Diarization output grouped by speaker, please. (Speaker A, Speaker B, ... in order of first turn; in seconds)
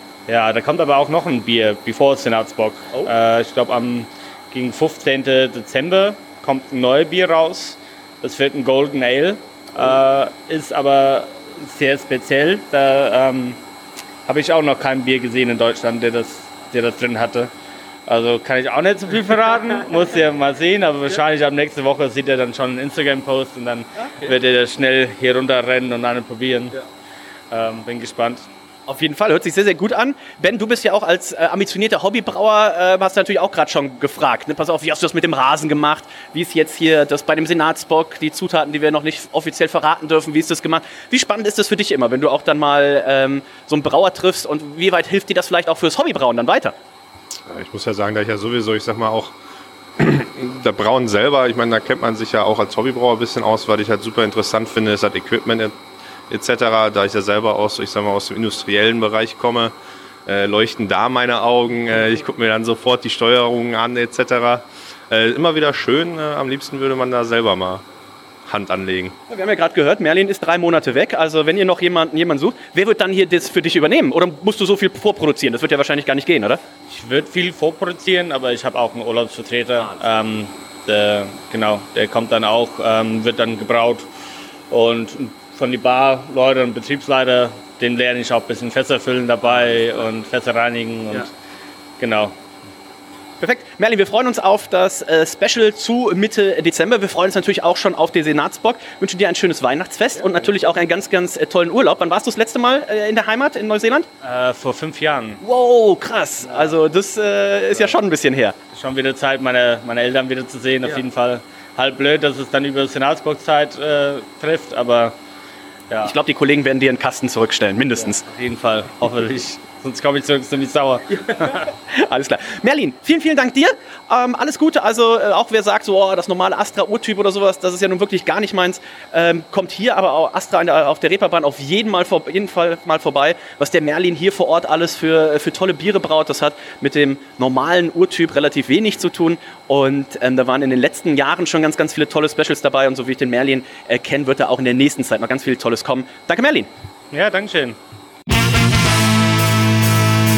Speaker A: 0.3-13.6, 14.3-17.5, 18.1-26.7, 27.5-28.5, 76.9-84.1, 84.7-91.3, 92.0-92.3, 104.2-105.4, 108.7-115.2, 115.9-116.2, 118.2-121.7, 147.1-147.8
Speaker B: 24.0-24.4, 28.9-46.8, 69.3-76.6, 93.4-104.1, 105.4-108.5, 116.0-118.2, 121.2-146.7
Speaker C: 47.5-49.4, 50.0-55.8, 56.3-59.7, 60.2-67.8, 68.5-69.1